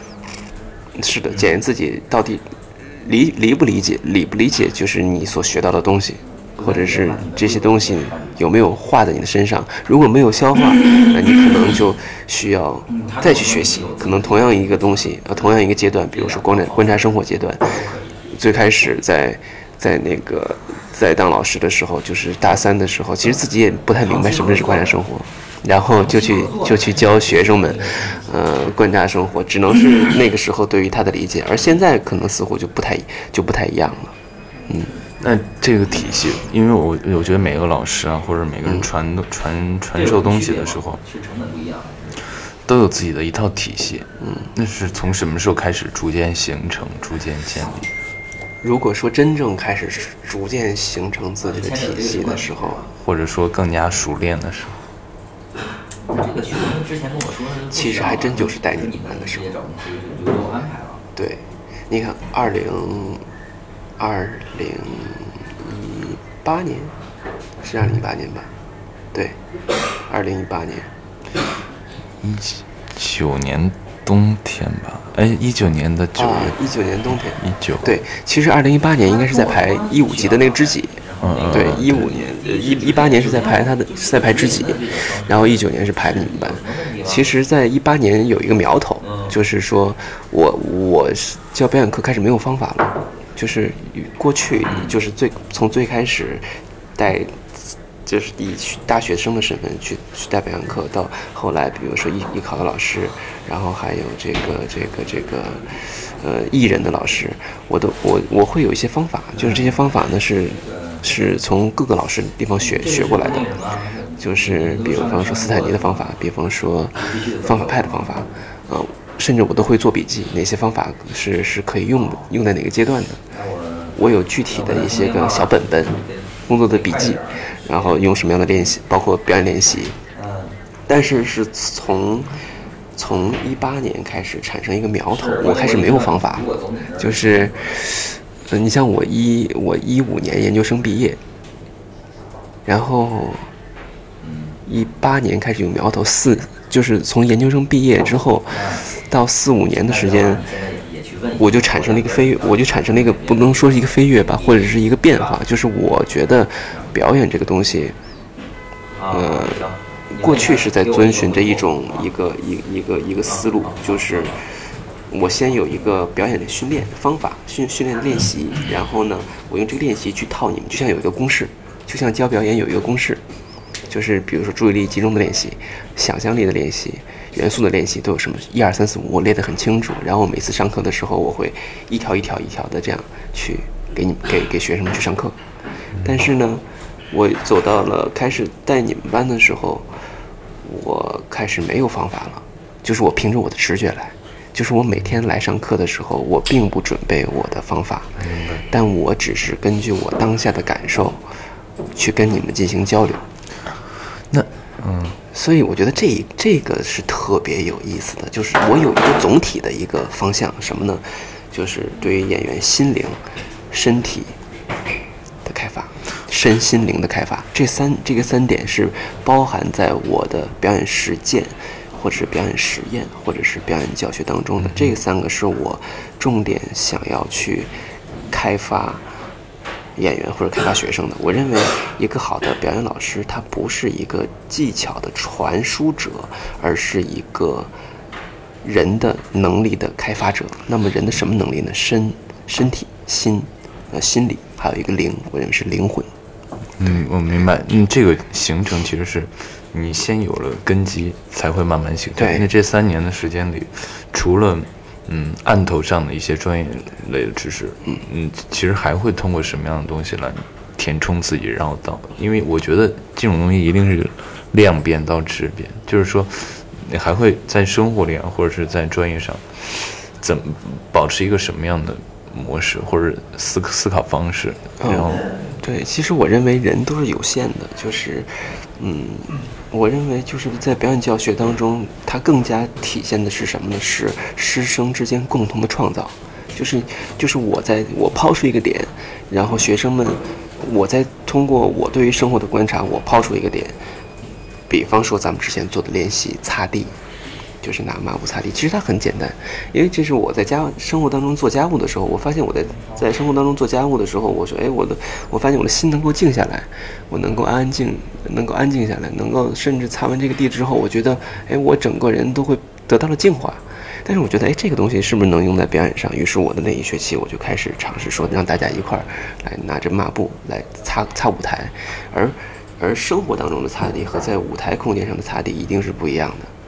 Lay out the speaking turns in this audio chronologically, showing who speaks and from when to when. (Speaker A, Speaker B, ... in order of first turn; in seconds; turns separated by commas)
Speaker A: 0.9-17.7, Speaker B: 6.6-8.5, Speaker B: 12.9-15.5, Speaker B: 16.1-18.4, Speaker A: 18.3-34.2, Speaker B: 24.0-25.0, Speaker B: 26.0-28.6, Speaker C: 35.2-41.0, Speaker B: 39.9-42.2, Speaker C: 42.7-47.9, Speaker A: 44.2-44.5, Speaker A: 48.6-52.9, Speaker B: 51.4-52.8, Speaker C: 53.0-54.8, Speaker B: 56.1-61.1, Speaker A: 57.7-59.5, Speaker A: 61.2-63.3, Speaker A: 64.0-66.9, Speaker A: 67.6-68.5, Speaker A: 70.1-70.9, Speaker C: 72.2-76.6, Speaker A: 76.2-81.0, Speaker C: 77.4-77.9, Speaker B: 79.1-87.3, Speaker C: 81.2-82.0, Speaker A: 81.5-96.5, Speaker B: 89.0-89.4, Speaker B: 94.7-94.9, Speaker A: 97.0-97.5, Speaker A: 98.0-113.5, Speaker B: 109.4-111.0, Speaker B: 112.6-116.1, Speaker A: 114.2-123.2, Speaker B: 116.9-118.3, Speaker B: 122.0-122.3, Speaker B: 123.3-128.1, Speaker A: 124.0-130.0, Speaker B: 130.1-130.6, Speaker A: 130.9-132.4, Speaker A: 133.0-136.4, Speaker B: 135.1-137.8, Speaker A: 137.0-141.2, Speaker A: 142.7-143.5, Speaker B: 144.2-144.6, Speaker A: 144.7-150.5, Speaker B: 148.5-149.0, Speaker B: 149.7-155.4, Speaker A: 151.4-158.0, Speaker B: 156.6-156.9, Speaker B: 159.0-162.1, Speaker A: 159.1-173.2, Speaker B: 163.3-164.3, Speaker A: 173.9-185.4, Speaker A: 186.0-190.0, Speaker A: 190.6-198.1, Speaker C: 198.2-198.7, Speaker A: 198.7-201.2, Speaker A: 201.9-203.3, Speaker C: 204.3-205.2, Speaker A: 205.3-214.3, Speaker A: 215.4-227.7, Speaker C: 224.6-224.9, Speaker A: 228.3-229.1, Speaker A: 230.0-237.7, Speaker A: 238.6-246.1, Speaker C: 246.8-275.2, Speaker A: 252.2-252.4, Speaker A: 274.8-293.8, Speaker A: 294.7-297.0, Speaker A: 297.6-326.5